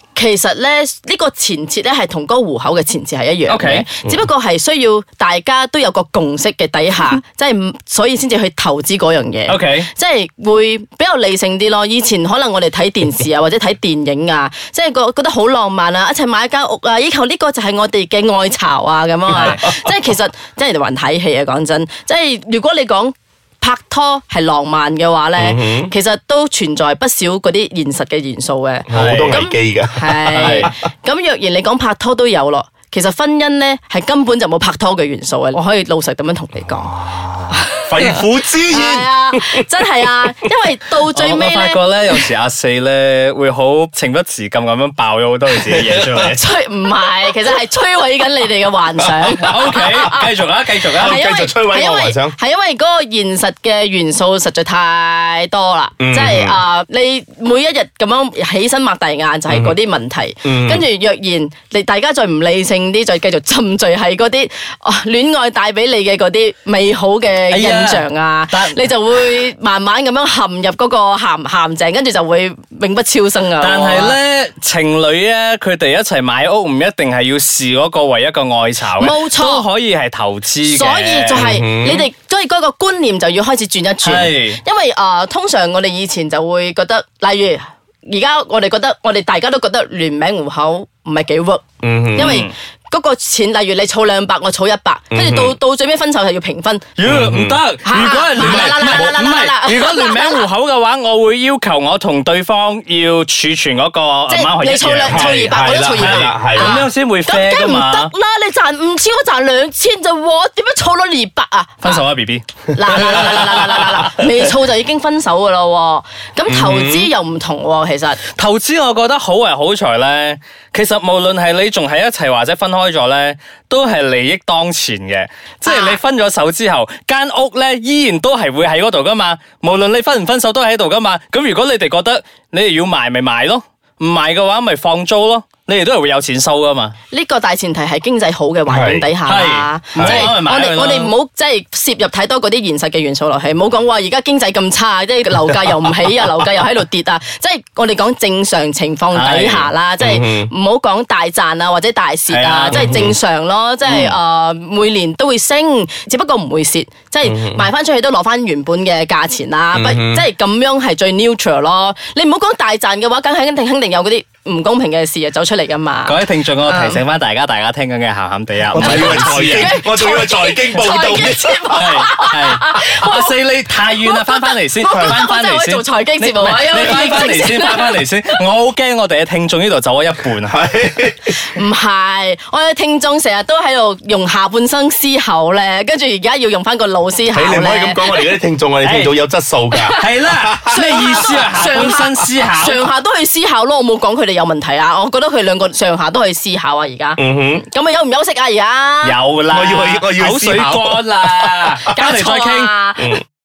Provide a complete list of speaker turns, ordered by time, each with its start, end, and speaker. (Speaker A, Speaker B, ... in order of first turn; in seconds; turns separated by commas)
Speaker A: 0.1-37.0, Speaker B: 3.5-3.9, Speaker B: 9.5-9.9, Speaker B: 19.3-19.6, Speaker C: 25.4-25.9, Speaker C: 28.9-30.7, Speaker B: 28.9-29.4, Speaker B: 30.3-30.7, Speaker C: 36.9-39.7, Speaker A: 37.5-41.8, Speaker B: 41.1-46.4, Speaker C: 45.6-46.2, Speaker A: 46.3-50.3, Speaker C: 49.2-50.0, Speaker B: 49.3-51.2, Speaker A: 50.9-74.2, Speaker C: 51.0-52.4, Speaker C: 56.0-56.6, Speaker C: 59.5-59.8, Speaker C: 60.4-60.9, Speaker B: 67.5-68.8, Speaker B: 73.6-81.5, Speaker A: 79.0-79.7, Speaker A: 80.6-96.9, Speaker C: 81.4-82.1, Speaker B: 84.0-84.6, Speaker C: 91.8-92.5, Speaker B: 92.2-92.5, Speaker C: 95.1-95.6, Speaker B: 97.0-108.1, Speaker C: 97.0-97.6, Speaker A: 97.8-100.5, Speaker C: 98.4-99.1, Speaker A: 104.3-112.0, Speaker C: 105.1-106.8, Speaker B: 111.8-114.5, Speaker A: 112.7-118.2, Speaker C: 116.5-117.1, Speaker B: 118.3-136.9, Speaker A: 125.7-126.0, Speaker A: 137.1-167.0, Speaker C: 138.7-139.1, Speaker B: 139.2-141.1, Speaker C: 140.0-140.3, Speaker B: 149.1-149.7, Speaker C: 150.0-150.5, Speaker B: 152.3-153.0, Speaker C: 152.7-153.2, Speaker C: 153.9-154.2, Speaker C: 157.2-157.7, Speaker C: 159.7-160.2, Speaker B: 166.1-169.8, Speaker C: 168.7-172.1, Speaker A: 168.8-173.3, Speaker B: 171.8-180.6, Speaker A: 174.0-178.0, Speaker C: 174.9-175.2, Speaker C: 180.5-181.5, Speaker A: 181.3-188.4, Speaker C: 187.3-191.3, Speaker B: 188.8-189.1, Speaker A: 189.7-190.0, Speaker B: 190.0-192.8, Speaker A: 190.7-199.2, Speaker C: 197.2-197.6, Speaker B: 199.0-202.7, Speaker C: 199.5-201.6, Speaker A: 201.9-203.1, Speaker C: 203.0-203.2